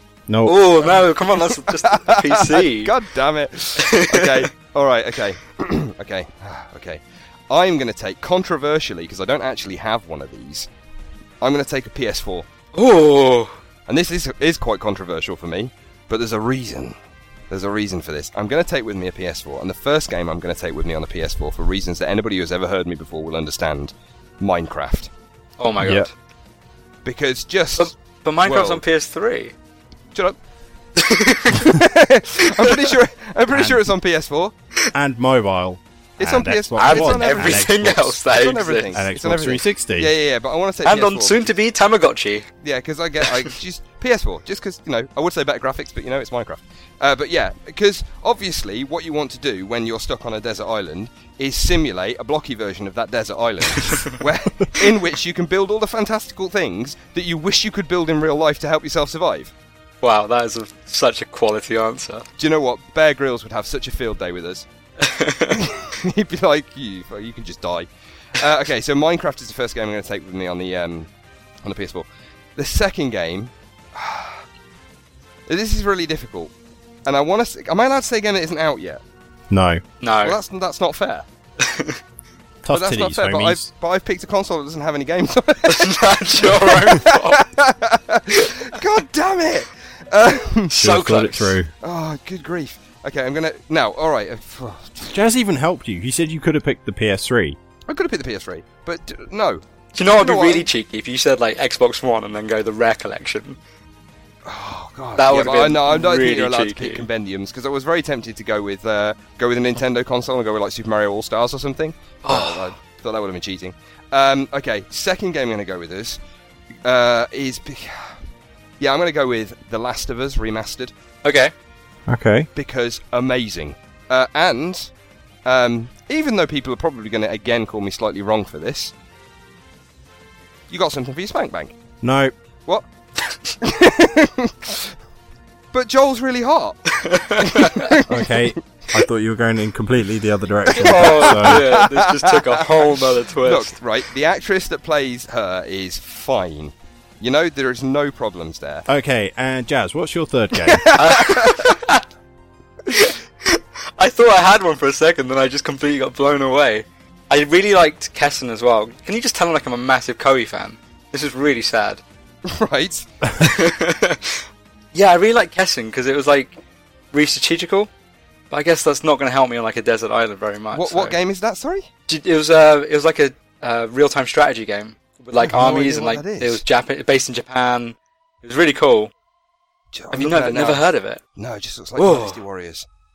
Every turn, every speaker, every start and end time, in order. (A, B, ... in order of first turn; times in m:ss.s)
0:00.3-0:00.6 A
0:00.4-0:02.9 B
0:00.8-0:10.7 C
0:03.8-0:04.5 B
0:11.4-0:12.4 C
0:12.7-0:13.5 B
0:13.9-0:16.9 C
0:17.5-0:25.1 C
0:25.6-0:26.1 B
0:25.8-0:26.1 A
0:27.0-0:28.8 C
0:27.8-0:29.5 B
0:31.0-0:31.8 B
0:31.5-0:34.5 C
0:32.6-0:32.9 B
0:33.5-0:33.8 A
0:34.9-0:38.2 A
0:36.2-0:41.6 C
0:36.8-0:39.0 B
0:38.9-0:40.1 A
0:40.8-0:42.5 B
0:42.6-0:59.5 C
0:43.2-0:43.5 B
0:53.8-0:54.1 B
1:00.0-1:02.2 B
1:02.4-1:04.6 C
1:05.0-1:05.6 B
1:05.5-1:11.1 C
1:11.6-1:14.4 C
1:15.5-1:16.5 C
1:17.0-1:19.0 C
1:19.5-1:19.8 A
1:20.0-1:20.4 B
1:20.2-1:21.2 C
1:21.6-1:22.0 B
1:22.6-1:23.7 A
1:22.7-1:30.8 C
1:25.7-1:27.4 B
1:30.7-1:31.7 A
1:30.8-1:31.6 B
1:31.8-1:35.1 C
1:35.1-1:37.6 A
1:37.9-1:39.6 C
1:39.9-1:43.6 B
1:40.2-1:40.7 C
1:44.4-1:56.2 C
1:45.2-1:47.1 B
1:52.2-1:52.8 B
1:56.8-1:58.2 C
1:58.8-2:00.9 C
2:01.2-2:01.5 B
2:02.1-2:02.5 A
2:02.5-2:04.9 C
2:05.4-2:08.9 C
2:10.7-2:11.7 C
2:12.0-2:12.3 A
2:13.6-2:14.9 C
2:15.7-2:16.8 C
2:16.9-2:18.0 B
2:17.4-2:19.0 C
2:18.1-2:21.9 A
2:20.6-2:28.8 C
2:20.8-2:23.7 B
2:28.9-2:30.9 A
2:30.6-2:31.6 C
2:30.9-2:32.0 B
2:32.9-2:42.0 B
2:42.4-2:43.0 C
2:43.4-2:46.6 B
2:47.1-2:47.9 B
2:48.5-2:51.2 B
2:50.7-2:51.9 C
2:52.1-2:59.1 B
2:55.4-2:56.6 C
2:59.9-3:00.8 C
3:00.1-3:01.2 B
3:01.4-3:02.8 C
3:02.0-3:02.4 B